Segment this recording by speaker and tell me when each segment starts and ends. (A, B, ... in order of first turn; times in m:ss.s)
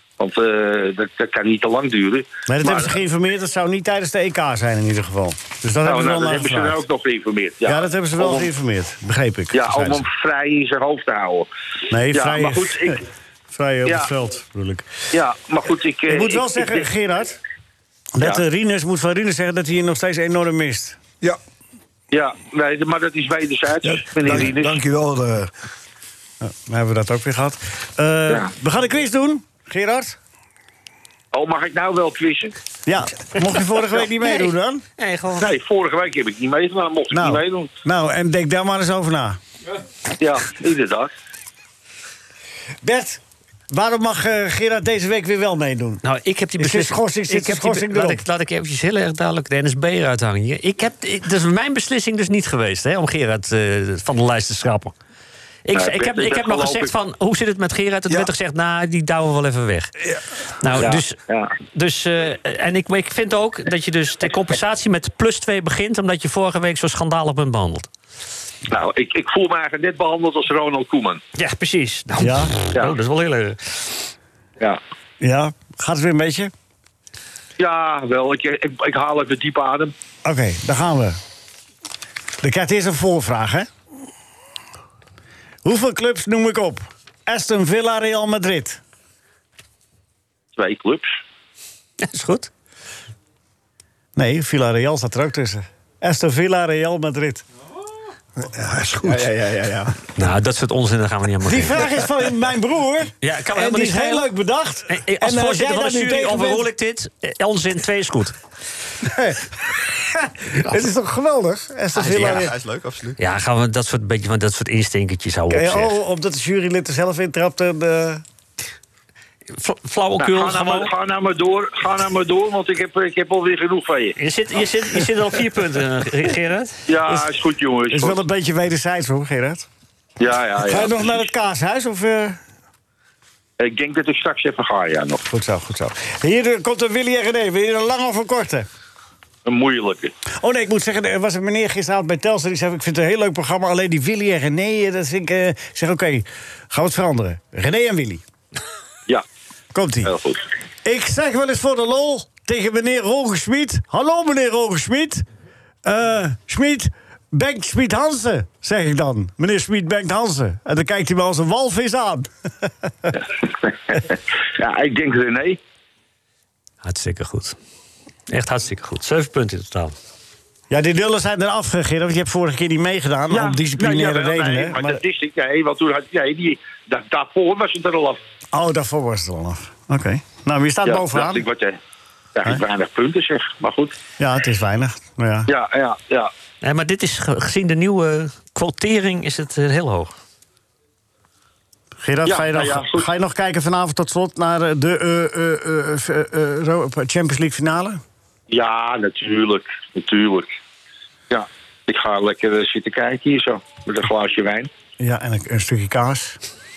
0:00.2-0:02.9 A
0:02.5-0:06.8 B
0:05.8-0:08.5 A
0:07.7-0:10.0 B
0:09.5-0:11.5 A
0:11.9-0:14.9 B
0:12.1-0:13.0 A
0:15.1-0:16.9 A
0:16.1-0:17.4 B
0:18.2-0:21.0 B
0:22.1-0:24.8 A
0:23.8-0:25.5 C
0:26.4-0:30.2 B
0:31.3-0:32.5 A
0:32.8-0:34.8 B
0:34.2-0:35.5 D
0:35.3-0:37.7 A
0:37.1-0:39.4 B
0:40.2-0:41.1 A
0:42.8-0:46.0 B
0:46.0-0:54.9 D
0:46.6-0:48.2 B
0:55.6-0:59.9 D
0:55.7-0:56.9 A
1:00.6-1:07.9 D
1:00.8-1:01.5 A
1:08.7-1:11.2 A
1:11.4-1:13.9 D
1:12.2-1:12.5 B
1:15.2-1:16.5 B
1:17.6-1:19.9 A
1:20.2-1:21.2 B
1:22.4-1:23.7 B
1:25.6-1:28.8 B
1:30.6-1:31.2 A
1:32.0-1:32.5 D
1:34.2-1:37.4 B
1:38.4-1:39.3 C
1:39.0-1:39.9 E
1:40.1-1:42.0 D
1:41.4-1:46.7 B
1:43.2-1:44.3 D
1:44.9-1:48.4 D
1:49.0-1:52.5 B
1:51.9-1:53.2 E
1:53.2-1:55.9 D
1:55.5-1:58.2 B
1:59.5-2:00.9 D
2:00.2-2:04.2 A
2:04.2-2:06.8 D
2:06.9-2:08.2 A
2:07.9-2:09.7 B
2:10.2-2:11.2 A
2:10.6-2:12.4 B
2:13.6-2:15.2 A
2:15.3-2:18.7 B
2:19.4-2:20.1 A
2:20.4-2:28.2 B
2:29.7-2:30.1 B
2:30.0-2:30.4 A
2:30.8-2:35.2 B
2:35.8-2:42.3 B
2:43.6-2:45.6 A
2:46.8-2:47.6 D
2:48.3-2:49.9 D
2:50.7-2:55.0 B
2:53.3-2:58.2 A
2:58.5-3:01.4 B
3:00.8-3:01.8 A
3:02.3-3:04.0 A
3:04.2-3:05.5 B
3:05.5-3:06.3 A
3:06.6-3:10.1 D
3:12.0-3:18.0 B
3:12.2-3:13.1 A
3:18.5-3:20.5 A
3:21.3-3:24.7 A
3:25.0-3:26.4 B